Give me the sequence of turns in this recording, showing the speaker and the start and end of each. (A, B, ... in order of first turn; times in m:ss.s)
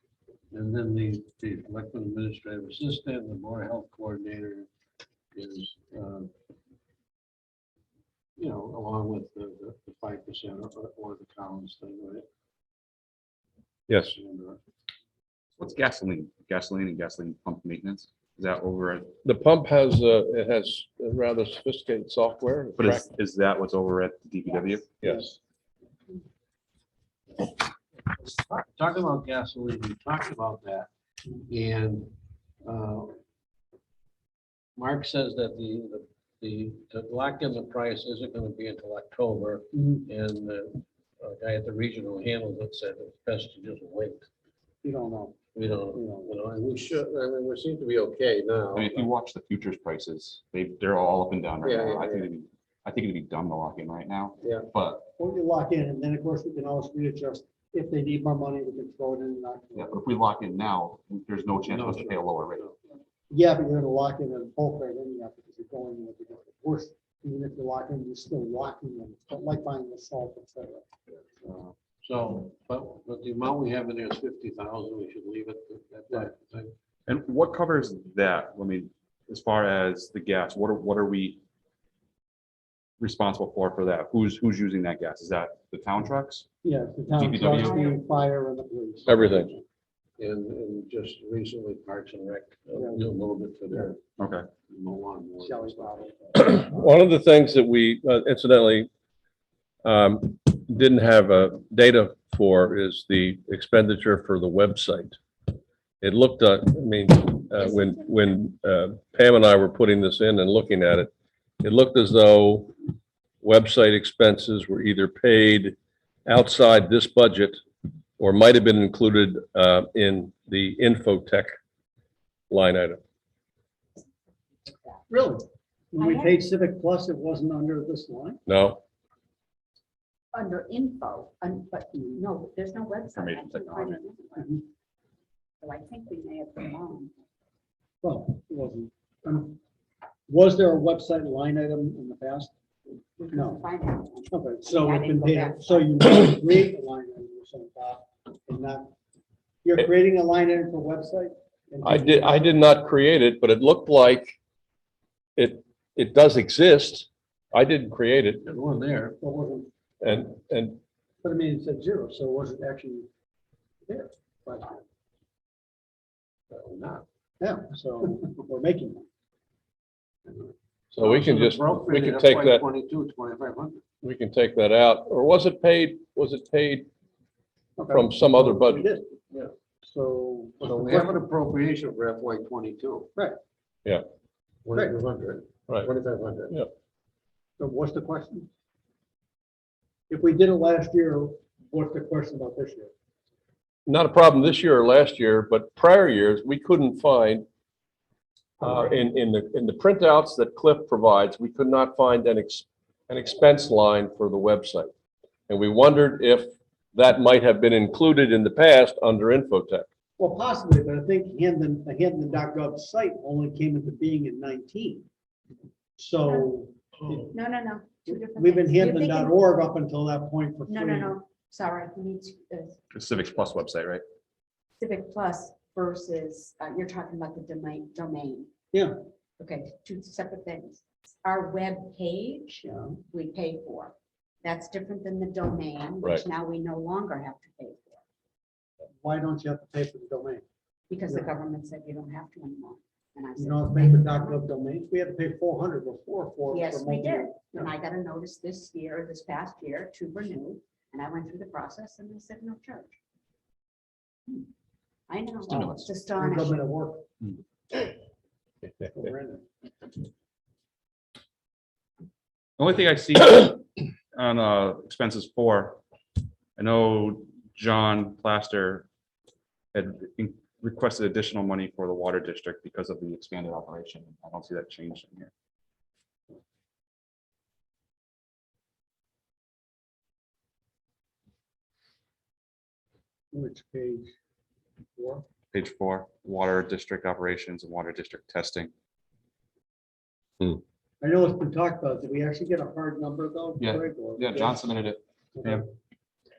0:00.5-0:04.7 A
0:05.3-0:06.3 A
0:08.4-0:12.2 A
0:13.9-0:14.1 B
0:14.0-0:14.6 A
0:15.6-0:19.1 C
0:19.2-0:23.1 B
0:22.8-0:24.9 C
0:25.0-0:25.3 B
0:25.0-0:25.4 D
0:28.2-0:30.9 A
0:31.4-0:32.1 A
0:32.6-0:33.2 A
0:34.8-0:44.3 A
0:39.7-0:40.0 D
0:44.8-0:46.3 D
0:45.5-0:49.0 A
0:48.7-0:55.1 C
0:51.6-0:52.3 A
0:54.4-0:54.7 A
0:55.2-1:00.0 D
0:59.7-1:02.6 C
1:01.6-1:02.8 A
1:03.3-1:10.8 D
1:11.4-1:16.7 A
1:17.1-1:21.4 C
1:23.0-1:26.5 C
1:26.6-1:29.6 D
1:27.2-1:27.9 C
1:27.2-1:28.0 E
1:29.1-1:29.5 B
1:30.2-1:34.0 A
1:32.7-1:33.0 D
1:34.2-1:34.5 C
1:34.6-1:36.1 A
1:35.4-1:36.8 D
1:36.4-1:38.9 B
1:39.8-1:45.2 B
1:46.0-1:52.7 B
1:47.6-1:48.0 E
1:53.4-1:57.6 B
1:58.2-2:01.5 B
2:02.5-2:03.0 B
2:05.1-2:08.4 D
2:06.0-2:06.4 E
2:08.5-2:08.8 B
2:10.3-2:14.6 E
2:13.1-2:14.0 C
2:15.6-2:17.1 E
2:18.0-2:19.6 D
2:20.3-2:22.5 D
2:23.2-2:26.0 E
2:23.3-2:23.6 D
2:24.3-2:28.9 D
2:29.6-2:32.6 D
2:31.8-2:34.4 B
2:35.4-2:38.4 B
2:38.4-2:39.2 A
2:39.2-2:39.7 D
2:40.0-2:40.8 B
2:41.2-2:43.1 D
2:43.8-2:44.8 D
2:46.5-2:47.0 A
2:47.4-2:49.0 D
2:50.9-2:53.8 A
2:51.0-2:52.6 B
2:54.0-2:56.9 B
2:57.8-2:59.1 D
2:57.9-2:58.9 B
2:59.8-3:01.2 D
3:00.6-3:03.1 A
3:04.6-3:06.6 A
3:07.6-3:08.5 D
3:10.1-3:12.9 D
3:13.8-3:17.4 B
3:18.6-3:24.9 B
3:18.6-3:18.9 D
3:25.5-3:29.9 B
3:30.2-3:35.0 D
3:36.0-3:37.3 D
3:37.3-3:39.4 E
3:38.0-3:41.2 D
3:40.7-3:42.9 E
3:42.9-3:44.0 C
3:44.8-3:48.5 E
3:49.4-3:58.0 E
3:52.6-3:53.0 D
3:59.0-4:00.4 D
4:00.9-4:04.4 E
4:03.4-4:07.7 D
4:06.5-4:13.0 E
4:15.1-4:16.6 E
4:15.5-4:15.9 C
4:15.5-4:17.0 D
4:18.8-4:19.4 D
4:22.6-4:25.8 C
4:26.6-4:28.9 C
4:29.7-4:35.3 C
4:43.3-4:44.1 D
4:45.0-4:45.2 D
4:45.5-4:48.7 C
4:51.0-4:54.6 D
4:53.6-4:55.6 C
4:55.3-4:55.6 D